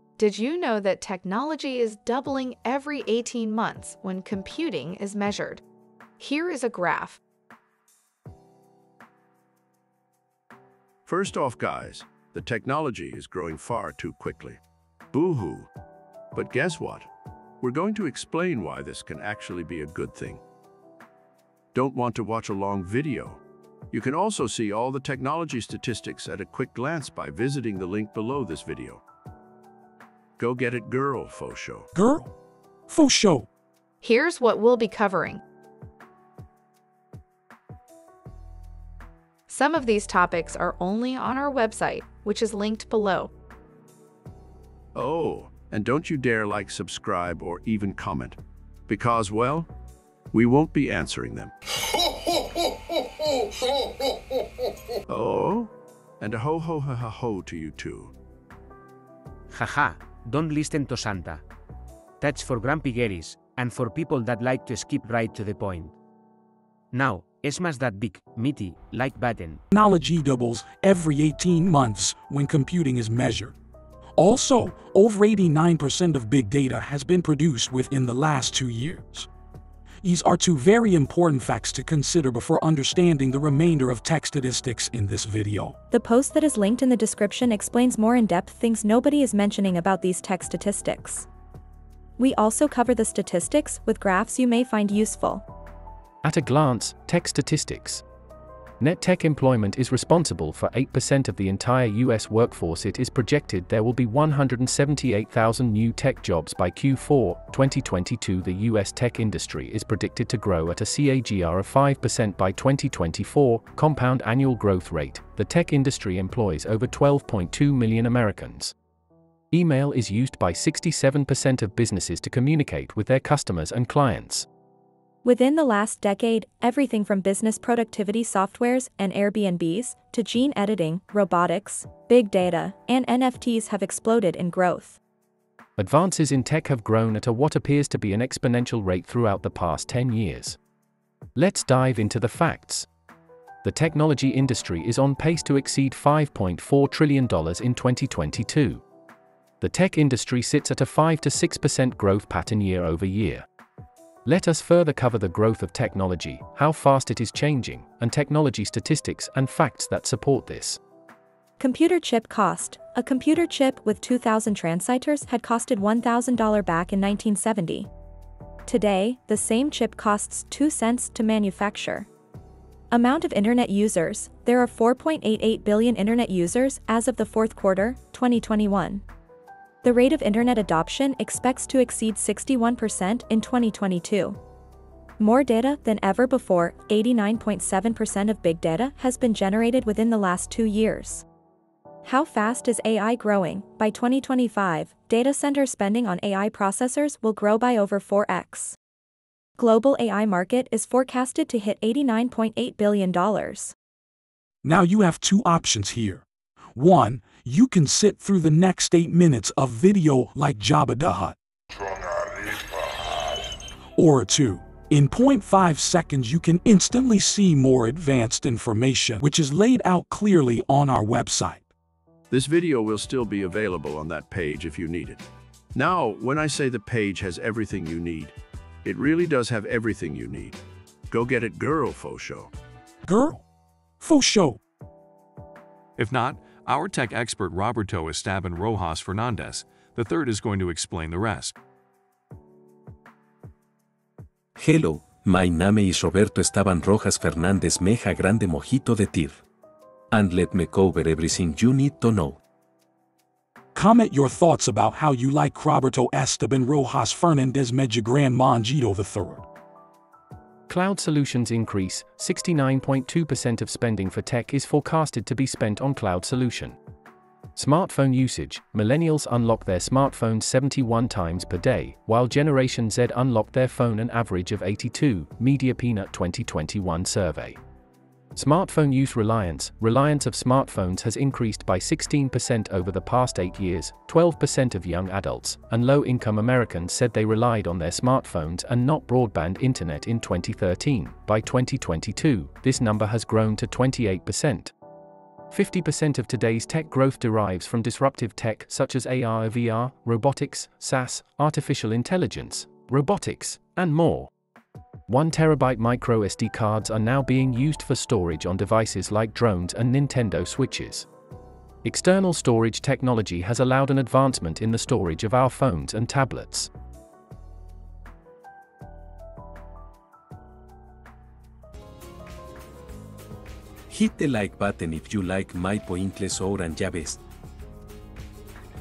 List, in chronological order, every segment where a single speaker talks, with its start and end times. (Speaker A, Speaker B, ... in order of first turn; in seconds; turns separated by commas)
Speaker A: 0.2-5.6, Speaker A: 6.2-7.2, Speaker B: 11.1-14.6, Speaker B: 15.1-15.7, Speaker B: 16.3-17.1, Speaker B: 17.6-20.4, Speaker B: 21.7-23.4, Speaker B: 23.9-29.0, Speaker B: 30.4-31.9, Speaker C: 31.9-32.3, Speaker C: 32.9-33.5, Speaker A: 34.0-35.4, Speaker A: 39.5-43.3, Speaker B: 44.9-49.7, Speaker B: 50.3-51.5, Speaker B: 55.1-58.1, Speaker D: 59.5-61.4, Speaker D: 62.2-66.0, Speaker D: 66.9-69.6, Speaker C: 69.7-73.5, Speaker C: 74.2-79.3, Speaker C: 80.0-85.8, Speaker E: 85.9-91.3, Speaker E: 92.2-95.4, Speaker F: 96.2-98.0, Speaker F: 98.8-118.7, Speaker F: 119.5-124.5, Speaker E: 125.2-135.0, Speaker F: 135.8-140.6, Speaker F: 141.3-142.9, Speaker F: 143.6-148.8, Speaker F: 149.6-153.4, Speaker F: 154.2-160.8, Speaker E: 161.6-167.9, Speaker E: 168.7-172.1, Speaker E: 172.9-179.0, Speaker E: 179.8-184.4, Speaker E: 185.2-191.2, Speaker E: 192.0-198.8, Speaker E: 199.6-203.7, Speaker C: 204.6-211.4, Speaker C: 214.0-221.7, Speaker B: 222.3-225.2, Speaker B: 225.7-232.5, Speaker C: 233.1-233.4, Speaker C: 234.0-234.6, Speaker G: 236.0-241.6, Speaker H: 244.6-249.4, Speaker H: 250.1-252.4, Speaker C: 253.7-259.4, Speaker F: 260.7-266.8, Speaker F: 267.6-277.6, Speaker F: 278.4-294.7, Speaker F: 295.5-304.3, Speaker F: 305.1-311.1, Speaker F: 311.8-316.7, Speaker H: 323.9-327.2